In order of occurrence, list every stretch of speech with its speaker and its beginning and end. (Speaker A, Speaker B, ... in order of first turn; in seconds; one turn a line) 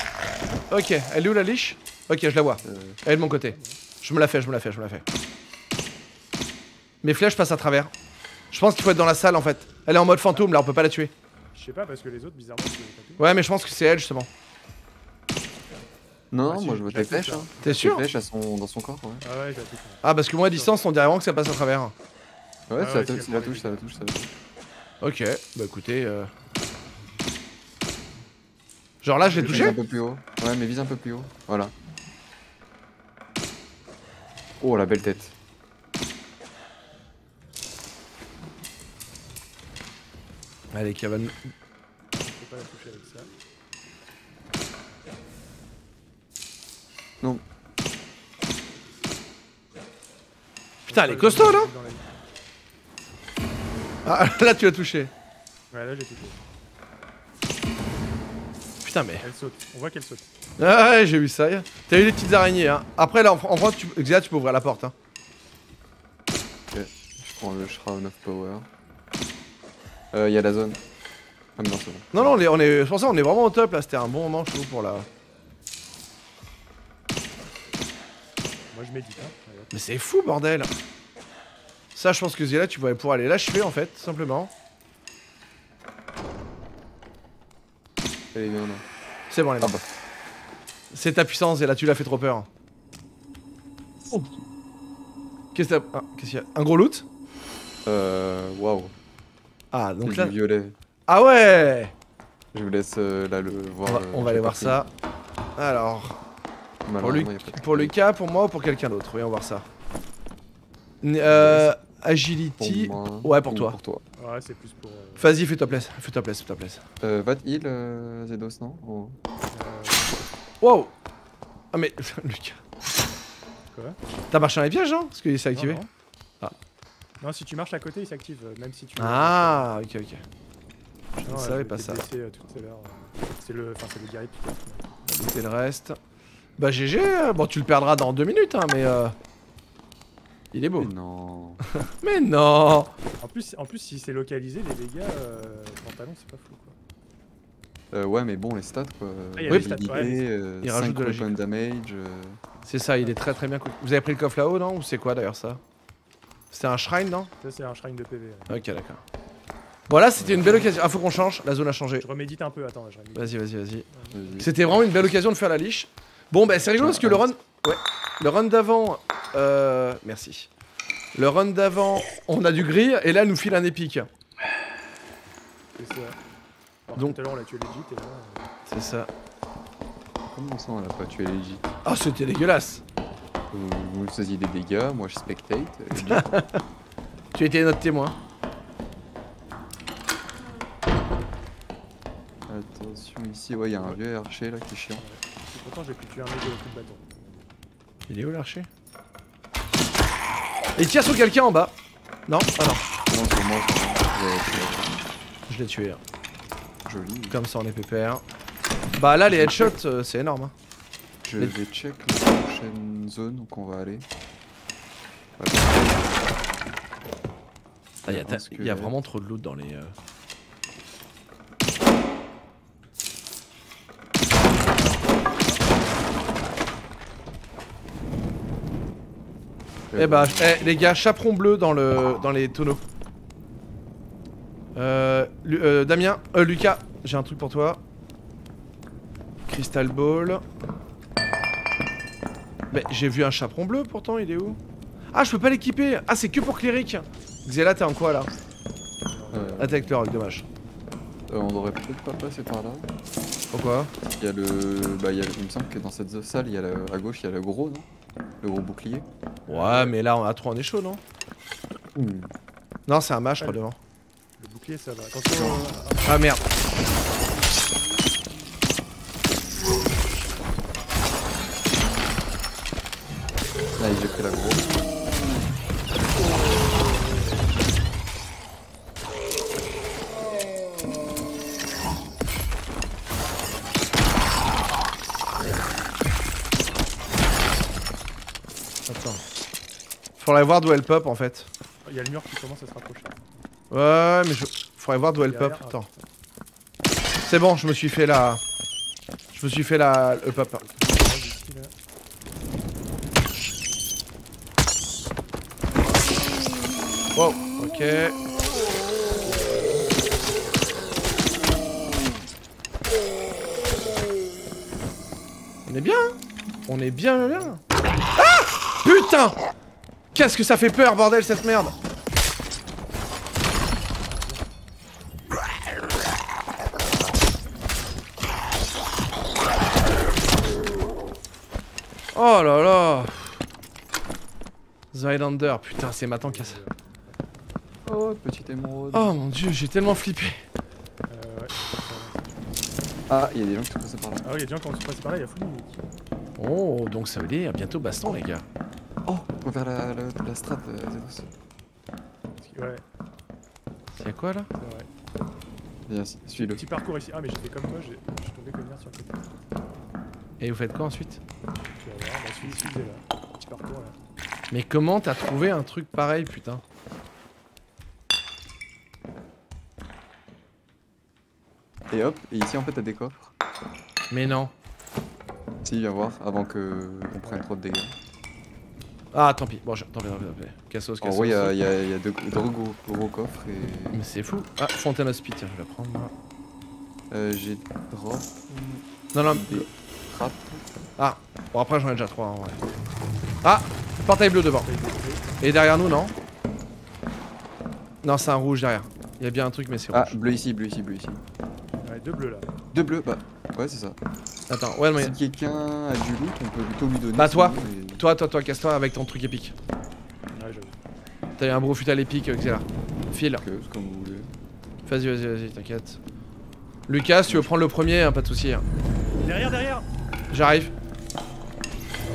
Speaker A: 0.7-5.0
Speaker B: 2.6-3.0
Speaker C: 3.1-3.8
Speaker A: 7.0-7.9
Speaker A: 8.5-11.1
Speaker C: 11.5-13.2
Speaker A: 13.2-14.3
Speaker B: 16.3-19.2
Speaker C: 16.5-17.9
Speaker A: 17.6-18.1
Speaker C: 19.2-20.8
Speaker A: 20.0-21.9
Speaker B: 22.7-24.3
Speaker C: 22.8-23.9
Speaker A: 25.0-26.3
Speaker A: 29.0-29.8
Speaker C: 29.2-29.9
Speaker B: 29.4-31.7
Speaker B: 34.6-35.3
Speaker A: 40.7-41.4
Speaker C: 42.1-43.3
Speaker C: 50.9-52.0
Speaker A: 50.9-51.7
Speaker A: 54.0-55.1
Speaker C: 55.7-56.4
Speaker A: 58.8-59.2
Speaker C: 59.2-60.3
Speaker A: 60.6-64.9
Speaker B: 66.7-68.7
Speaker B: 70.1-70.8
Speaker B: 71.6-72.5
Speaker A: 72.1-75.1
Speaker C: 78.7-79.7
Speaker A: 79.7-80.7
Speaker A: 82.0-84.5
Speaker B: 88.3-88.8
Speaker A: 89.3-89.8
Speaker A: 90.9-92.5
Speaker A: 95.5-97.1
Speaker B: 97.9-98.9
Speaker A: 99.7-100.4
Speaker B: 100.0-100.8
Speaker A: 101.1-101.9
Speaker B: 102.5-104.8
Speaker A: 103.8-104.9
Speaker A: 105.6-106.2
Speaker B: 106.9-108.0
Speaker A: 107.0-109.7
Speaker A: 111.0-113.8
Speaker B: 111.2-111.7
Speaker B: 112.6-114.0
Speaker C: 114.2-115.3
Speaker A: 115.2-116.8
Speaker B: 117.0-119.2
Speaker C: 119.5-120.2
Speaker A: 120.6-121.0
Speaker A: 121.7-122.6
Speaker C: 123.7-124.0
Speaker A: 124.3-125.8
Speaker C: 125.5-125.9
Speaker C: 127.2-129.7
Speaker A: 129.0-130.2
Speaker A: 131.2-132.1
Speaker C: 131.2-134.9
Speaker A: 135.1-136.0
Speaker A: 136.6-139.2
Speaker A: 140.5-140.9
Speaker B: 140.8-141.6
Speaker A: 141.7-142.9
Speaker C: 143.2-146.8
Speaker B: 147.9-152.5
Speaker C: 149.4-150.3
Speaker A: 149.5-149.8
Speaker A: 150.6-151.3
Speaker A: 152.7-155.6
Speaker C: 153.0-153.4
Speaker A: 156.5-157.3
Speaker C: 157.4-158.7
Speaker A: 158.5-159.0
Speaker A: 159.9-162.1
Speaker B: 160.2-160.7
Speaker C: 162.0-164.5
Speaker A: 163.2-163.9
Speaker B: 164.1-164.5
Speaker A: 164.4-170.5
Speaker B: 166.7-167.3
Speaker A: 171.1-174.1
Speaker C: 175.8-176.2
Speaker C: 176.9-178.5
Speaker A: 178.7-179.1
Speaker B: 180.3-181.7
Speaker A: 181.8-182.8
Speaker B: 183.5-186.3
Speaker A: 186.0-186.6
Speaker A: 187.3-188.2
Speaker B: 192.5-195.0
Speaker C: 195.0-197.4
Speaker A: 198.1-198.7
Speaker A: 200.8-202.9
Speaker B: 203.1-205.1
Speaker A: 205.5-206.0
Speaker B: 206.9-207.4
Speaker A: 207.3-208.2
Speaker A: 209.0-210.5
Speaker B: 209.3-209.7
Speaker B: 211.2-214.1
Speaker B: 215.4-216.2
Speaker A: 218.1-220.0
Speaker B: 218.1-218.9
Speaker C: 224.4-225.9
Speaker B: 229.9-230.7
Speaker A: 230.0-232.8
Speaker A: 234.8-237.8
Speaker A: 239.5-240.4
Speaker A: 242.7-244.6
Speaker A: 245.1-248.3
Speaker C: 249.0-249.7
Speaker B: 249.3-250.0
Speaker A: 249.6-250.5
Speaker B: 251.3-252.9
Speaker A: 253.5-253.9
Speaker B: 254.1-257.9
Speaker B: 258.4-259.1
Speaker C: 259.5-260.0
Speaker A: 259.5-261.0
Speaker B: 261.9-262.3
Speaker A: 262.9-263.8
Speaker C: 264.4-266.2
Speaker B: 265.2-265.6
Speaker A: 266.1-266.4
Speaker B: 273.8-274.7
Speaker A: 288.9-289.2
Speaker A: 290.2-291.5
Speaker C: 291.9-293.4
Speaker A: 293.7-295.9
Speaker C: 295.2-296.0
Speaker A: 297.2-298.4
Speaker A: 299.3-300.6
Speaker C: 300.3-301.7
Speaker A: 307.1-308.2
Speaker C: 309.2-310.1
Speaker A: 315.7-316.2
Speaker A: 316.7-317.6
Speaker C: 317.2-317.6
Speaker A: 318.2-319.4
Speaker A: 320.1-321.8
Speaker C: 324.0-324.4
Speaker A: 332.1-333.4
Speaker A: 334.9-336.6
Speaker C: 336.2-337.2
Speaker B: 337.9-339.2
Speaker A: 338.9-340.4
Speaker C: 341.1-342.9
Speaker B: 343.1-344.2
Speaker C: 344.2-345.9
Speaker A: 346.4-348.5
Speaker B: 349.1-351.3
Speaker C: 352.4-352.8
Speaker A: 354.0-354.5
Speaker C: 354.6-354.9
Speaker B: 355.9-356.6
Speaker C: 356.4-359.3
Speaker A: 360.4-361.2
Speaker C: 361.8-364.0
Speaker A: 362.4-362.8
Speaker A: 364.5-366.6
Speaker B: 371.9-373.3
Speaker A: 374.1-374.5
Speaker B: 375.6-377.9
Speaker A: 379.1-381.6
Speaker B: 381.0-384.0
Speaker A: 383.9-386.1
Speaker B: 387.1-390.6
Speaker A: 389.1-389.7
Speaker A: 391.0-392.6
Speaker A: 393.4-394.7
Speaker C: 394.6-395.3
Speaker A: 395.4-396.1
Speaker A: 398.0-400.2
Speaker B: 399.9-401.2
Speaker C: 401.8-402.5
Speaker B: 402.7-404.0
Speaker A: 404.5-405.2
Speaker B: 404.9-408.0
Speaker A: 407.2-409.6
Speaker C: 410.3-410.8
Speaker A: 411.4-413.4
Speaker B: 413.4-414.3
Speaker A: 414.9-416.0
Speaker A: 416.9-418.7
Speaker B: 417.3-417.5
Speaker C: 419.2-419.9
Speaker A: 420.3-420.7